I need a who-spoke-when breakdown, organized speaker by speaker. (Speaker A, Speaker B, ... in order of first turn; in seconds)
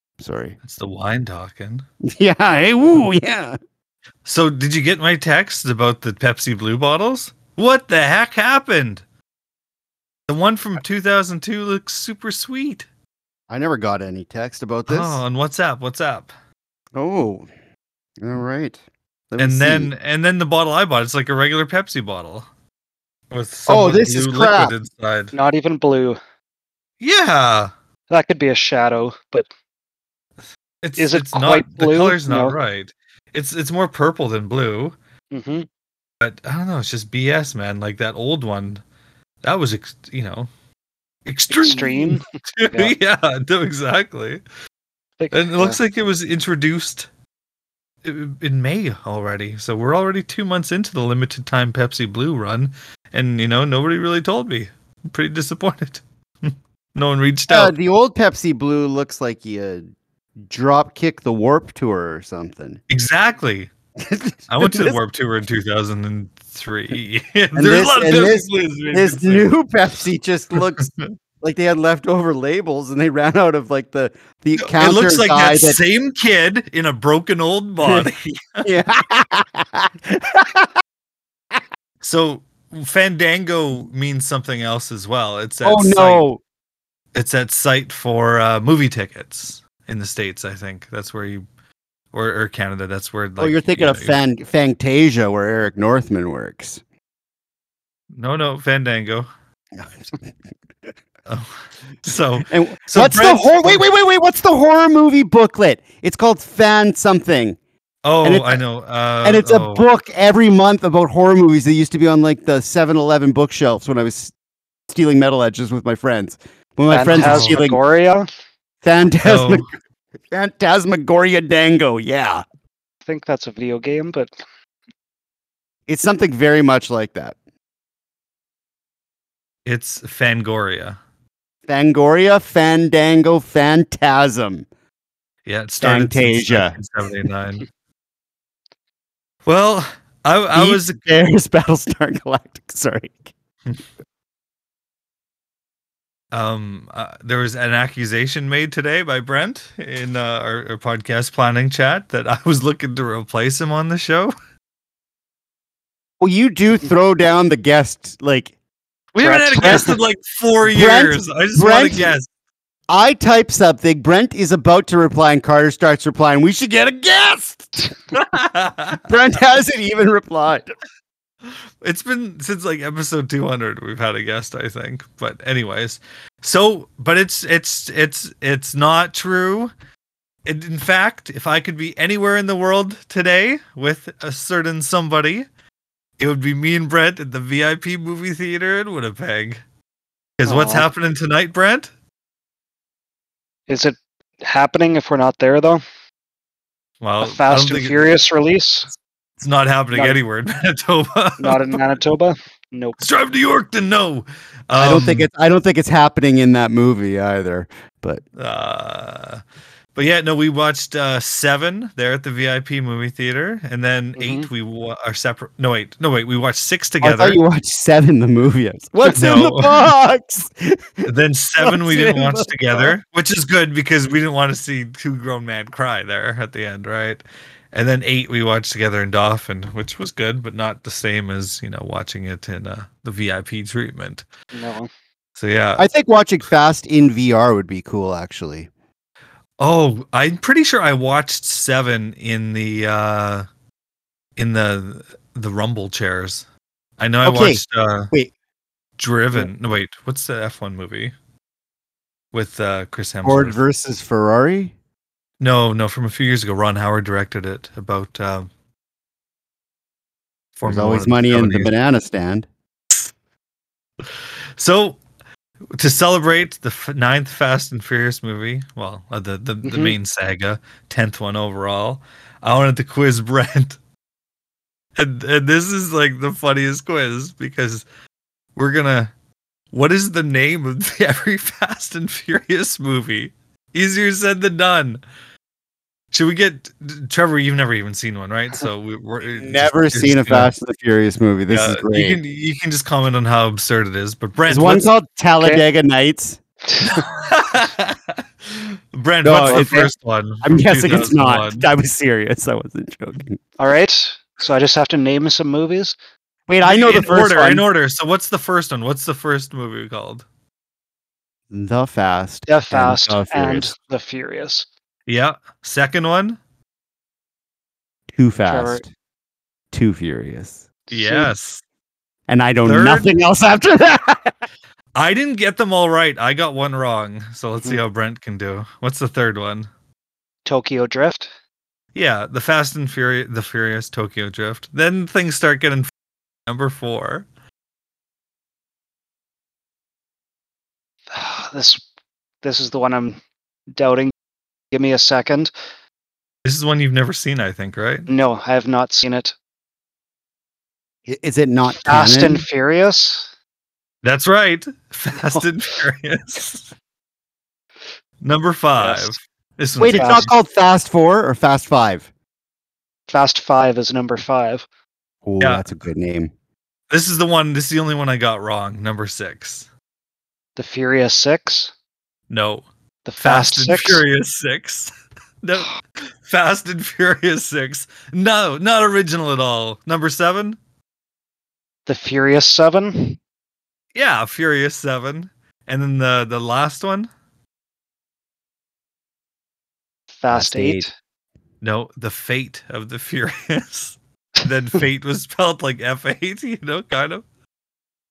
Speaker A: 0.2-0.6, 2.1-3.6, 13.5-15.2, 16.9-17.5, 18.2-18.8, 19.3-19.9, 23.7-24.7, 57.5-59.8, 60.4-62.8, 64.0-65.0, 67.5-70.9, 71.4-75.8, 77.8-78.1, 78.6-80.7, 85.6-86.4, 93.4-96.8, 99.8-100.1, 102.5-107.6, 108.2-108.6, 109.2-114.3, 114.9-117.8, 118.8-119.7, 120.3-122.4, 125.9-127.3, 131.7-134.7, 135.8-136.7, 140.5-143.3, 156.2-158.5, 159.3-159.9, 160.6-162.1, 162.9-167.9, 169.0-170.7, 204.7-208.2, 217.0-221.1, 221.6-222.9, 235.8-238.7, 247.2-248.3, 253.2-254.7, 260.6-262.5, 289.4-292.2, 294.5-296.4, 299.2-299.9, 300.4-303.4, 306.5-307.6, 311.5-313.7, 318.1-318.9, 319.7-320.6, 322.3-324.4, 351.1-352.4, 359.8-362.1, 365.2-366.3, 390.3-390.9
Speaker B: 0.6-1.8, 4.2-9.0, 10.3-12.9, 14.9-16.3, 19.4-22.5, 23.3-25.3, 27.0-27.7, 30.8-35.0, 36.2-38.8, 39.4-40.5, 41.2-44.4, 45.3-47.1, 48.0-57.7, 62.9-63.7, 64.5-69.5, 70.8-71.1, 74.6-78.7, 82.0-86.2, 87.1-91.4, 92.1-94.2, 98.1-99.3, 101.3-101.5, 102.0-103.8, 108.0-109.8, 117.1-117.6, 119.2-119.6, 129.6-131.0, 135.4-137.7, 139.4-141.0, 146.3-154.3, 159.1-162.3, 168.1-169.0, 171.8-179.7, 180.4-185.4, 186.2-189.6, 190.4-191.9, 197.0-198.0, 199.4-201.8, 203.0-205.3, 208.4-209.4, 209.9-217.4, 219.0-219.9, 221.0-227.2, 227.7-234.2, 235.4-235.8, 239.6-243.4, 244.4-246.4, 247.0-248.1, 249.0-251.1, 252.3-253.6, 255.4-258.5, 260.6-261.7, 264.6-265.0, 265.7-273.8, 275.0-277.8, 278.6-279.1, 279.7-285.0, 286.1-290.5, 291.5-294.8, 296.8-301.7, 306.6-310.2, 315.1-316.4, 320.9-321.6, 322.6-323.1, 324.9-329.7, 331.9-335.9, 336.4-337.2, 346.4-348.1, 354.0-356.7, 358.2-360.3, 365.4-365.7, 366.9-369.7, 372.3-372.6, 373.2-374.9, 375.4-380.6, 383.9-387.1, 391.6-397.2
Speaker C: 25.3-26.2, 28.1-29.5, 31.0-32.5, 35.3-35.7, 41.5-42.9, 45.2-45.8, 116.9-118.3, 123.0-124.3, 159.3-159.8, 190.4-190.8, 193.7-195.8, 197.2-198.9, 199.9-200.2, 201.4-203.0, 214.2-214.5, 234.5-234.9, 269.6-269.9, 296.7-297.0, 299.4-299.9, 303.6-305.9, 312.5-314.6, 318.4-318.8, 320.9-321.3, 330.4-331.3, 341.1-341.8, 342.4-343.2, 343.7-344.1, 344.7-345.5, 348.1-349.3, 351.8-353.3, 355.2-355.4, 358.8-359.2, 359.9-360.3, 363.1-364.6, 370.6-371.7, 373.0-374.0, 381.9-383.2, 390.2-390.9